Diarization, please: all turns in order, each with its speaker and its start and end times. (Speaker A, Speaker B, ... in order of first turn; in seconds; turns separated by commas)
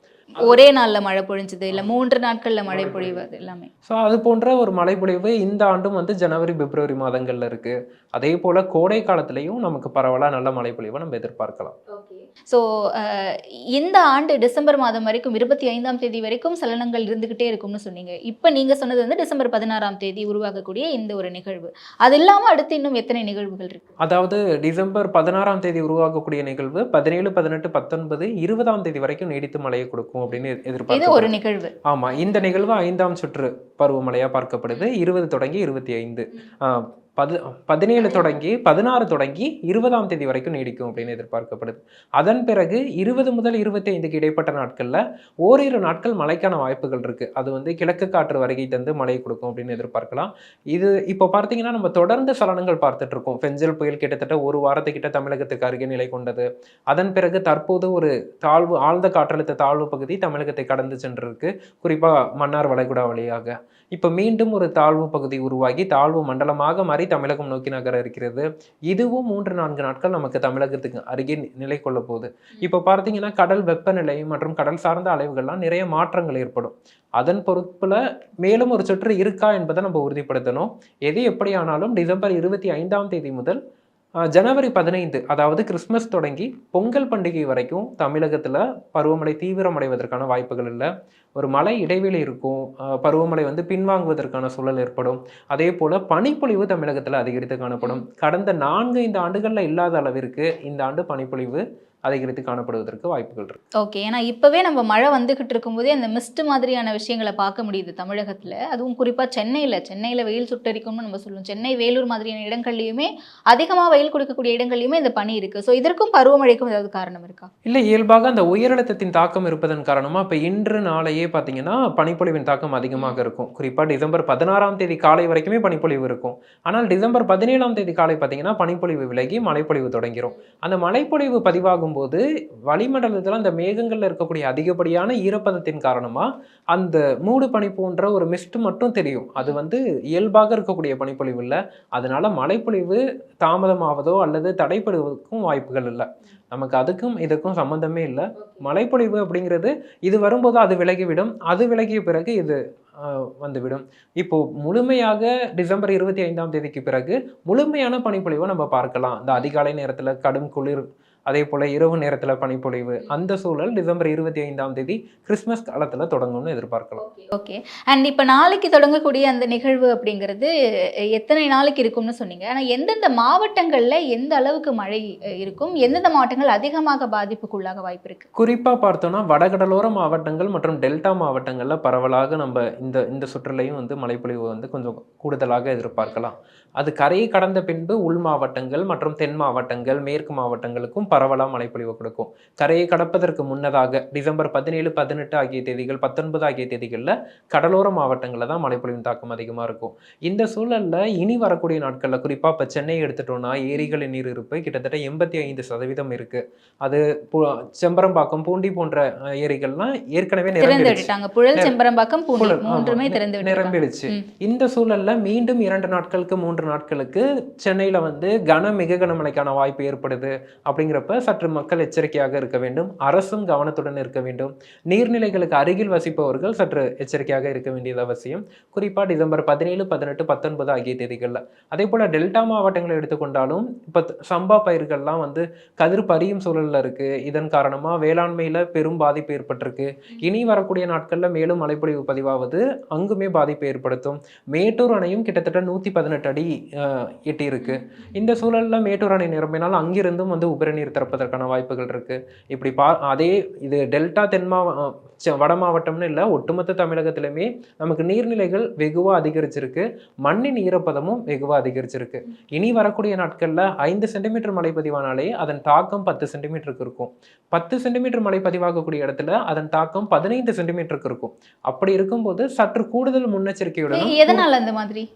Speaker A: 0.4-3.7, Speaker B: 2.7-3.2, Speaker B: 3.9-11.7, Speaker A: 11.9-23.9, Speaker B: 24.0-31.3, Speaker A: 30.3-31.8, Speaker B: 31.9-83.6, Speaker A: 38.0-38.3, Speaker B: 84.3-103.6, Speaker A: 103.8-117.5, Speaker B: 117.7-167.0, Speaker A: 123.0-123.2, Speaker A: 148.4-148.7, Speaker A: 167.0-170.5, Speaker A: 171.2-178.3, Speaker B: 178.4-211.7, Speaker A: 210.6-214.2, Speaker B: 212.4-274.4, Speaker A: 247.6-248.0, Speaker A: 273.9-275.1